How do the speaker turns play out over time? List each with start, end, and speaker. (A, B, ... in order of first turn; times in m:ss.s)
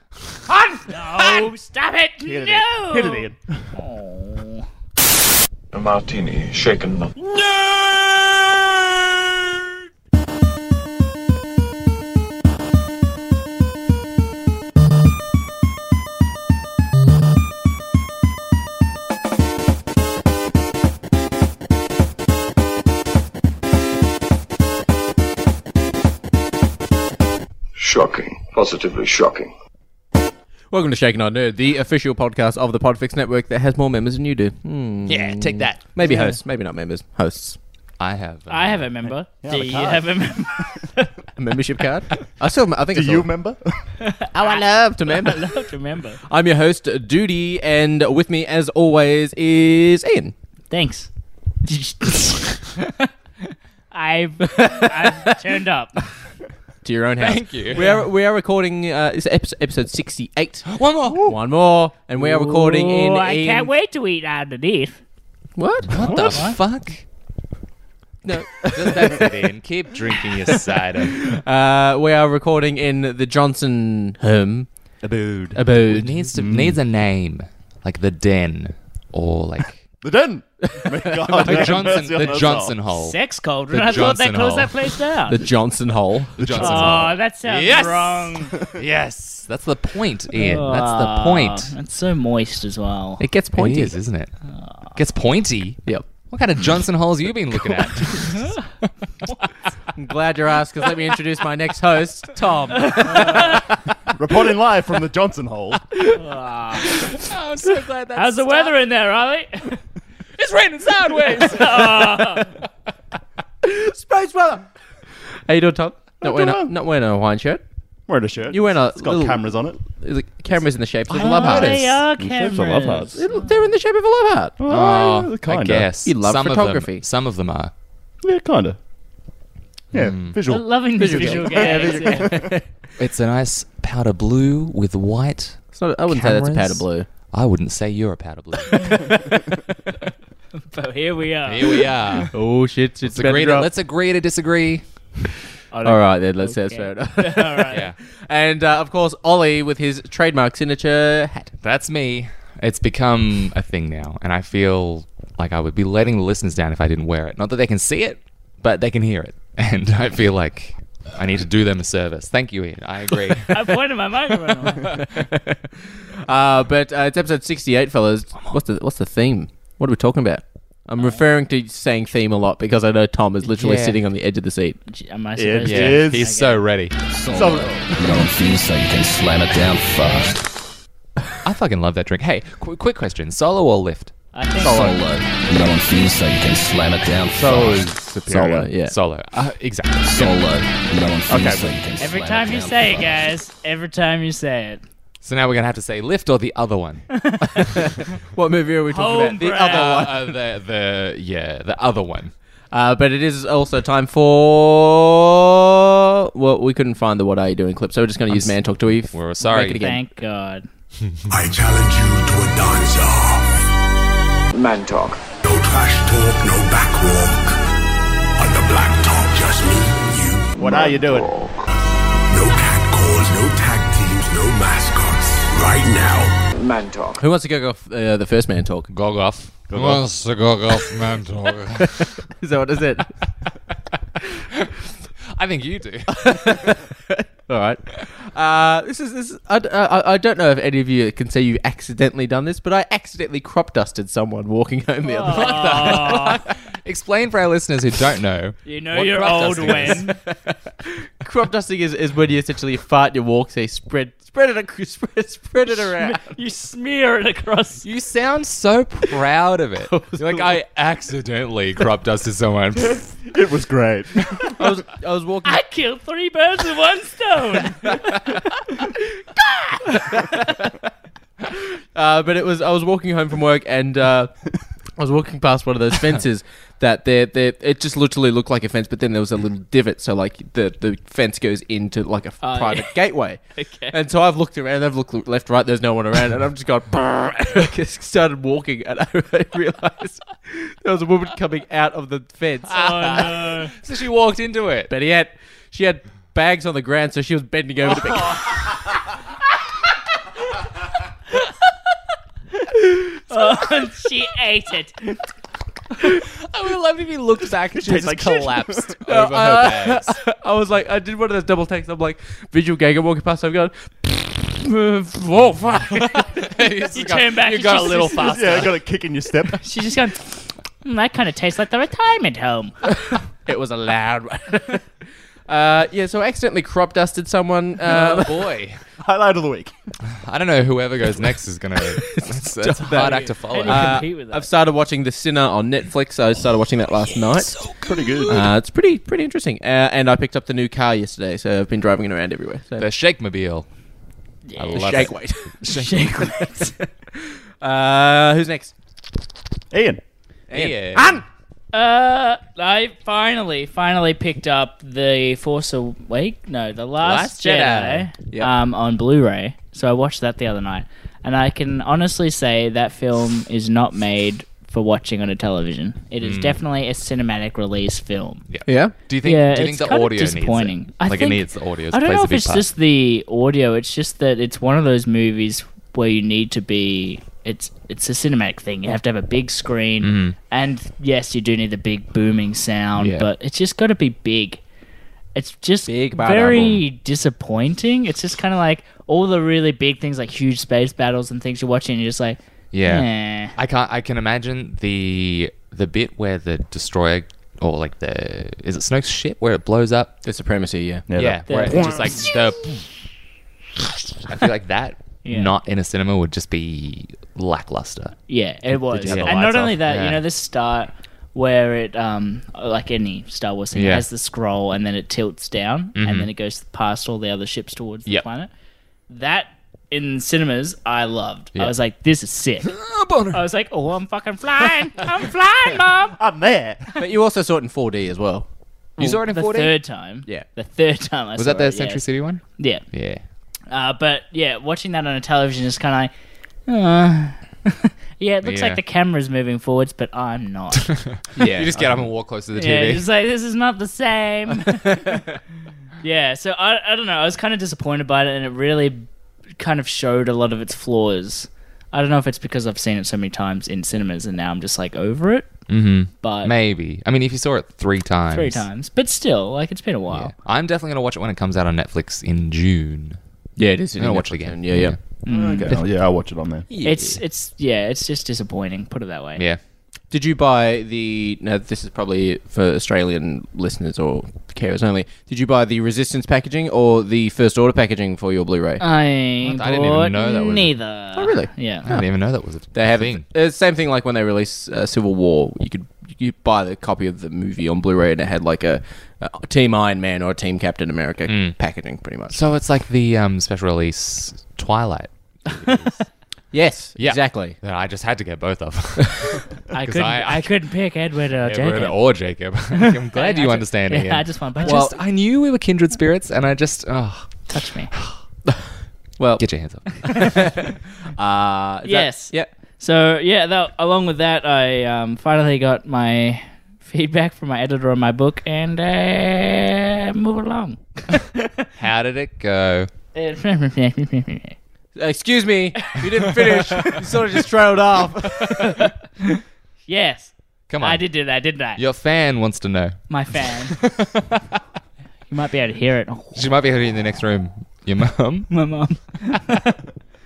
0:00.3-0:01.4 A
0:00.9-0:04.6 B
0:02.2-0:03.6 A
0:05.7-0:07.1 C
0:27.8-0:29.5 C
0:30.7-0:37.6 D
0:35.1-0:35.8 E
0:36.0-0:36.4 B
0:38.0-0:39.1 E
0:38.5-0:41.1 B
0:39.4-0:40.1 A
0:41.4-0:43.3 D
0:42.9-0:43.8 A
0:44.0-0:46.2 B
0:44.3-0:45.6 D
0:46.3-0:50.3 D
0:50.7-0:51.1 B
0:51.6-0:56.0 B
0:54.6-0:55.4 D
0:56.8-1:00.7 D
0:57.2-0:57.8 E
0:57.7-0:58.0 B
1:00.7-1:01.3 E
1:01.0-1:01.4 A
1:01.2-1:03.7 D
1:02.2-1:05.0 B
1:05.6-1:06.0 D
1:05.9-1:07.0 E
1:06.0-1:06.4 A
1:06.2-1:06.6 B
1:08.2-1:09.5 D
1:08.7-1:11.3 E
1:10.4-1:14.7 D
1:15.0-1:15.7 A
1:15.5-1:16.2 D
1:15.8-1:19.8 E
1:16.3-1:16.8 A
1:20.0-1:22.8 A
1:20.6-1:22.1 D
1:21.4-1:23.2 E
1:22.9-1:25.4 B
1:23.7-1:24.9 E
1:25.3-1:26.4 D
1:26.4-1:27.2 A
1:26.4-1:31.7 E
1:26.6-1:28.5 B
1:30.3-1:33.2 B
1:33.2-1:34.0 D
1:33.2-1:34.3 E
1:34.9-1:38.7 E
1:38.3-1:38.5 B
1:40.0-1:43.7 D
1:42.8-1:43.6 B
1:44.1-1:45.9 A
1:46.2-1:47.2 B
1:46.9-1:48.8 E
1:48.1-1:49.8 B
1:50.4-1:52.1 E
1:51.4-1:52.5 B
1:51.7-1:52.4 D
1:53.6-1:54.7 D
1:55.5-1:57.6 D
1:56.2-1:56.7 A
1:58.1-1:59.8 A
1:58.5-2:02.0 D
2:01.1-2:01.9 E
2:01.2-2:03.5 B
2:02.2-2:03.2 A
2:03.1-2:04.6 D
2:04.6-2:05.9 A
2:04.7-2:07.7 E
2:06.0-2:07.0 D
2:08.2-2:08.8 A
2:09.9-2:12.5 A
2:09.9-2:10.4 E
2:10.4-2:12.3 B
2:11.0-2:12.7 D
2:13.0-2:19.2 E
2:15.7-2:17.1 D
2:18.7-2:19.0 B
2:20.7-2:21.9 B
2:21.4-2:22.3 E
2:22.3-2:23.7 D
2:23.0-2:24.8 E
2:25.7-2:27.8 B
2:25.8-2:31.5 D
2:27.7-2:28.0 E
2:31.6-2:43.8 E
2:43.5-2:44.9 B
2:44.8-2:45.6 D
2:46.2-2:54.8 D
2:53.4-2:54.0 E
2:54.9-2:56.6 B
2:55.4-2:56.3 A
2:55.6-2:57.0 E
2:57.1-3:00.6 F
2:57.3-2:58.2 A
3:01.4-3:04.1 E
3:04.3-3:04.9 B
3:04.6-3:07.9 F
3:04.7-3:04.9 A
3:07.3-3:08.7 A
3:08.2-3:09.0 D
3:08.9-3:10.3 E
3:10.0-3:13.3 F
3:11.3-3:11.8 A
3:12.0-3:14.8 B
3:15.2-3:17.1 E
3:17.1-3:17.6 B
3:17.6-3:20.4 D
3:18.9-3:20.0 B
3:19.6-3:22.3 E
3:22.7-3:30.0 D
3:28.3-3:28.5 E
3:29.1-3:29.8 E
3:29.5-3:30.6 B
3:31.3-3:33.6 G
3:34.5-3:35.2 C
3:35.4-3:37.6 G
3:38.4-3:40.7 G
3:40.6-3:41.4 A
3:40.6-3:41.4 C
3:42.3-3:46.4 G
3:46.5-3:47.2 C
3:47.2-3:48.9 D
3:48.9-3:52.2 E
3:49.7-3:50.1 A
3:51.8-3:53.1 D
3:55.3-3:56.8 E
3:56.1-4:06.2 D
4:05.0-4:06.4 B
4:05.3-4:10.1 E
4:08.6-4:10.1 B
4:09.5-4:16.3 D
4:15.7-4:17.8 B
4:17.8-4:23.2 E
4:19.9-4:20.5 D
4:23.2-4:24.6 A
4:24.6-4:25.6 D
4:25.4-4:29.0 B
4:29.8-4:30.4 B
4:30.2-4:30.7 D
4:31.4-4:34.4 D
4:35.0-4:43.4 D
4:42.4-4:43.0 B
4:43.6-4:43.9 B
4:43.9-4:52.8 D
4:52.7-4:53.7 B
4:52.7-4:54.9 E
4:54.9-4:58.7 D
5:02.5-5:05.2 B
5:06.2-5:10.1 E
5:07.7-5:09.0 A
5:09.0-5:16.3 D
5:15.9-5:16.2 B
5:16.3-5:18.7 E
5:16.9-5:18.8 B
5:18.2-5:19.6 A
5:19.6-5:22.8 B
5:23.4-5:24.8 D
5:25.5-5:28.6 D
5:27.8-5:28.8 E
5:29.0-5:29.7 A
5:30.1-5:34.0 E
5:31.9-5:37.5 D
5:33.0-5:34.5 B
5:37.3-5:38.4 E
5:37.8-5:38.4 A
5:38.3-5:42.9 D
5:42.8-5:43.7 E
5:44.4-5:46.7 B
5:44.6-5:46.3 E
5:44.7-5:45.5 D
5:47.1-5:48.7 D
5:49.7-5:50.0 A
5:50.5-5:51.2 E
5:50.5-5:51.2 D
5:51.7-6:08.4 B
5:57.0-5:58.5 D
6:06.2-6:06.6 E
6:08.5-6:12.7 E
6:08.6-6:08.9 D
6:09.2-6:24.6 B
6:20.0-6:20.4 E
6:23.0-6:23.3 D
6:25.3-6:33.5 B
6:25.9-6:26.8 D
6:32.7-6:40.2 E
6:40.2-6:41.0 D
6:41.1-6:42.3 A
6:41.1-6:42.8 E
6:41.4-6:42.3 B
6:44.3-6:48.2 E
6:45.2-6:45.5 B
6:48.3-6:58.5 B
6:48.9-6:50.2 E
6:49.0-6:49.7 A
6:53.7-6:54.0 E
6:55.9-6:56.3 E
6:59.1-7:02.7 B
7:02.6-7:03.4 E
7:03.3-7:06.2 B
7:06.2-7:06.9 A
7:07.0-7:08.4 D
7:09.0-7:09.8 E
7:09.2-7:12.8 B
7:11.4-7:13.2 E
7:13.7-7:16.1 B
7:16.6-7:20.9 B
7:18.4-7:18.8 E
7:21.0-7:23.0 E
7:21.4-7:22.1 D
7:22.5-7:25.2 B
7:24.6-7:25.2 D
7:26.0-7:29.0 B
7:29.6-7:35.6 B
7:35.7-7:38.6 E
7:36.1-7:36.5 B
7:38.3-7:40.3 B
7:40.1-7:43.2 E
7:43.6-7:45.0 D
7:44.0-7:45.0 E
7:45.2-7:45.7 B
7:45.3-7:46.7 A
7:46.7-7:47.2 D
7:46.8-7:49.4 B
7:50.1-7:58.8 D
7:58.8-8:01.9 B
7:59.5-8:00.8 E
8:01.1-8:02.0 D
8:01.8-8:03.2 E
8:02.7-8:12.4 D
8:11.3-8:11.6 E
8:12.3-8:16.0 E
8:15.5-8:16.0 B
8:16.5-8:17.6 D
8:17.0-8:20.6 E
8:19.7-8:22.0 B
8:21.4-8:28.2 E
8:22.8-8:24.9 B
8:24.6-8:24.9 D
8:27.5-8:27.9 B
8:29.2-8:29.4 D
8:29.4-8:30.5 E
8:30.0-8:32.5 D
8:31.8-8:41.6 B
8:41.8-8:42.9 E
8:43.1-8:44.6 B
8:45.0-8:48.9 D
8:45.9-8:47.0 B
8:48.4-8:51.8 B
8:50.7-8:51.1 E
8:51.8-8:54.6 E
8:53.1-8:53.8 B
8:55.3-8:56.4 B
8:56.3-8:58.5 E
8:58.5-8:59.7 B